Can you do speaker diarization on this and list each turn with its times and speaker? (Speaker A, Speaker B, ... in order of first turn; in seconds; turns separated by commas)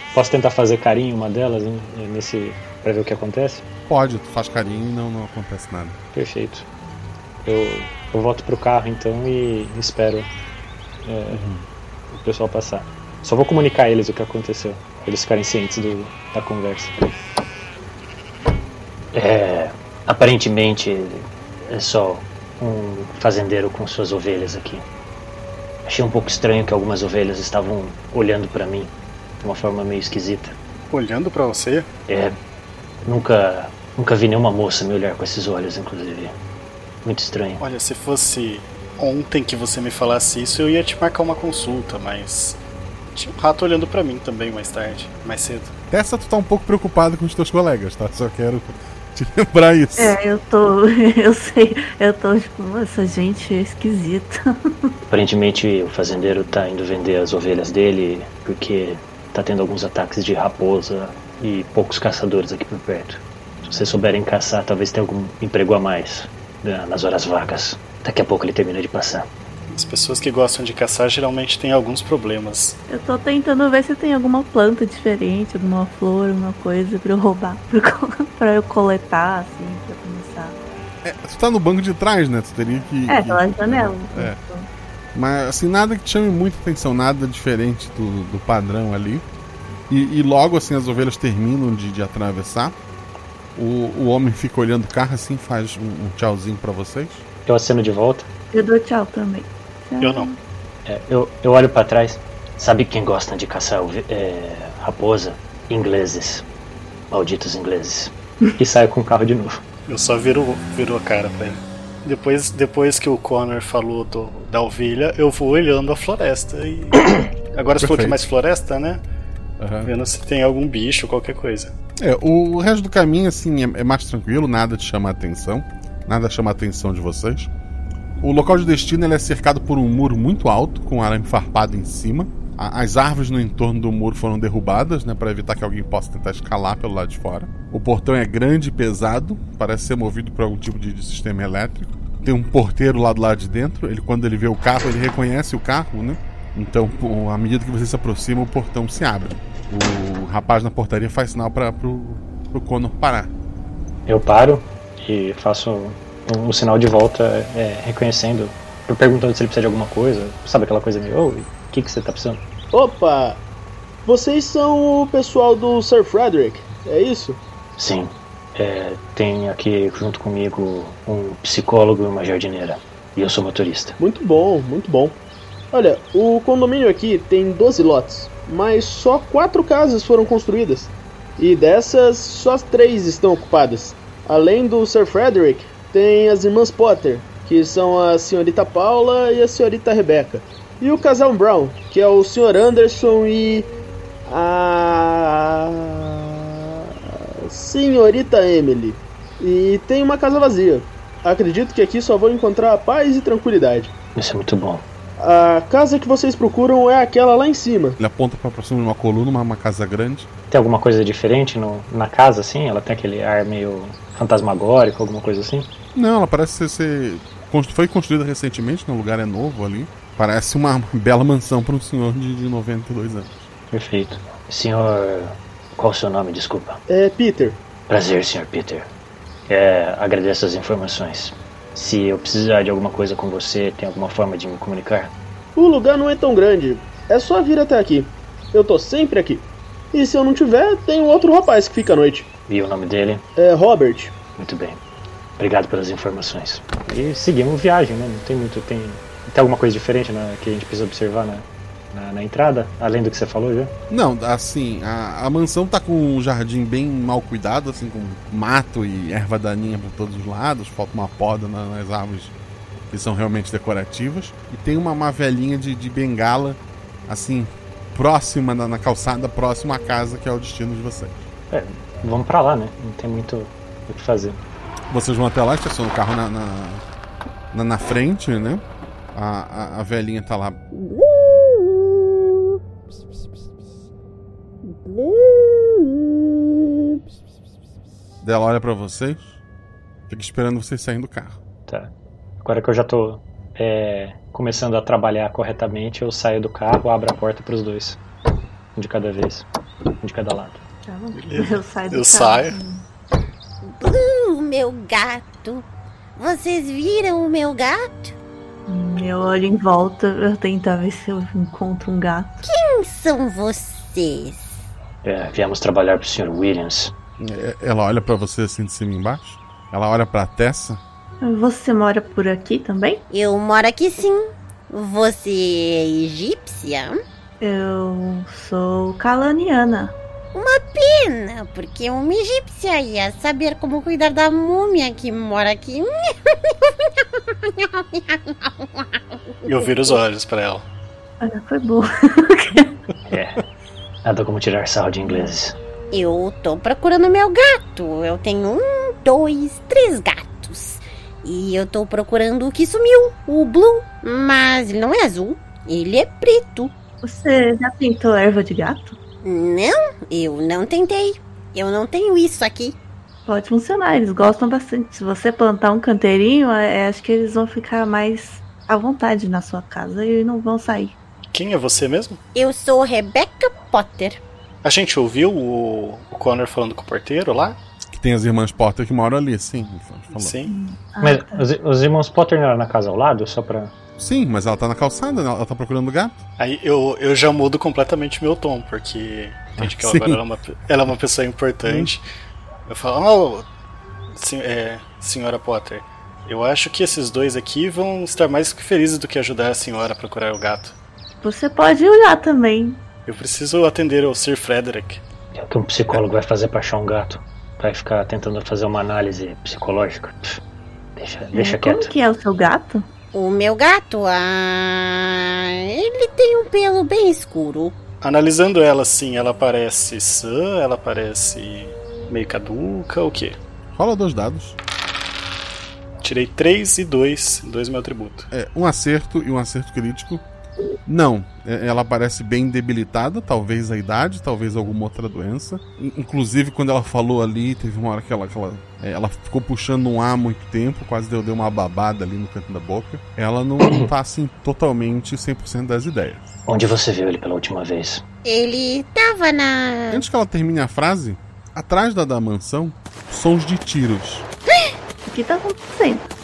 Speaker A: 0.1-3.6, Speaker B: 3.9-6.0, Speaker A: 6.1-6.7, Speaker A: 7.4-10.3, Speaker A: 11.0-11.5, Speaker B: 11.3-11.6, Speaker A: 12.1-16.9, Speaker A: 19.1-24.8, Speaker A: 25.9-30.6, Speaker C: 30.9-31.9, Speaker A: 32.1-32.4, Speaker A: 33.0-36.3, Speaker A: 37.0-37.6, Speaker C: 37.6-42.6, Speaker C: 43.1-45.7, Speaker B: 45.9-50.2, Speaker D: 50.0-54.4, Speaker A: 55.1-69.3, Speaker C: 69.7-72.8, Speaker D: 72.9-80.6, Speaker B: 81.0-84.4, Speaker D: 83.1-84.7, Speaker B: 85.1-89.2, Speaker B: 89.9-92.8, Speaker B: 93.5-97.2, Speaker A: 97.5-98.3, Speaker D: 98.5-100.3, Speaker C: 100.0-100.3, Speaker A: 100.8-106.4, Speaker A: 107.1-109.6, Speaker C: 109.9-119.0, Speaker B: 117.8-118.2, Speaker B: 119.6-119.9, Speaker C: 119.8-121.7, Speaker B: 122.0-127.5, Speaker B: 128.2-153.3, Speaker A: 154.1-162.4, Speaker E: 162.7-163.4, Speaker E: 164.1-167.4, Speaker A: 167.8-173.9, Speaker E: 174.0-175.2, Speaker E: 175.7-193.7, Speaker E: 194.2-203.9, Speaker A: 204.2-204.8, Speaker E: 205.2-208.0, Speaker B: 208.0-210.3, Speaker A: 210.5-215.7, Speaker B: 215.9-223.4, Speaker A: 223.7-226.8, Speaker E: 226.9-227.6, Speaker A: 227.9-228.9, Speaker A: 229.5-235.1, Speaker E: 235.6-242.3, Speaker A: 242.5-243.2, Speaker E: 243.4-244.1, Speaker A: 244.4-244.8, Speaker A: 245.4-253.7, Speaker B: 253.9-262.3, Speaker B: 262.9-271.3, Speaker A: 271.5-274.4, Speaker B: 274.9-276.8, Speaker B: 277.5-280.6, Speaker F: 280.7-281.6, Speaker F: 284.9-285.7, Speaker B: 288.2-289.3, Speaker B: 290.1-291.4, Speaker A: 291.7-298.0, Speaker A: 298.7-299.4, Speaker A: 300.0-300.6, Speaker D: 300.8-302.8, Speaker C: 301.2-302.6, Speaker F: 303.6-305.6, Speaker F: 306.2-308.1, Speaker D: 308.7-312.4, Speaker F: 312.4-314.6, Speaker A: 315.0-316.9, Speaker B: 317.2-320.8, Speaker D: 321.2-323.0, Speaker F: 323.1-327.0, Speaker D: 327.4-329.9, Speaker F: 330.3-336.9, Speaker F: 337.4-339.0, Speaker C: 339.5-340.6, Speaker D: 341.2-342.7, Speaker A: 343.1-343.4, Speaker A: 344.0-345.6, Speaker F: 345.9-356.7, Speaker D: 357.0-359.0, Speaker F: 359.2-362.8, Speaker D: 363.2-370.9, Speaker C: 371.3-372.2, Speaker F: 372.3-374.2, Speaker C: 374.6-377.6, Speaker B: 377.9-380.4, Speaker C: 380.1-380.5, Speaker D: 380.5-381.5, Speaker A: 381.0-383.7, Speaker B: 384.0-386.2, Speaker C: 386.4-392.0, Speaker B: 389.6-390.2, Speaker B: 391.6-391.9, Speaker C: 392.7-393.4, Speaker C: 394.1-400.7, Speaker D: 401.2-402.8, Speaker C: 403.1-405.0, Speaker A: 405.3-410.4, Speaker A: 410.9-411.9, Speaker D: 411.3-412.9, Speaker F: 413.1-417.8, Speaker C: 418.0-423.4, Speaker B: 423.7-424.6, Speaker C: 426.0-428.3, Speaker B: 428.3-430.2, Speaker B: 430.9-446.3, Speaker A: 446.4-448.0, Speaker F: 448.2-450.0, Speaker B: 449.9-454.3, Speaker D: 455.1-456.1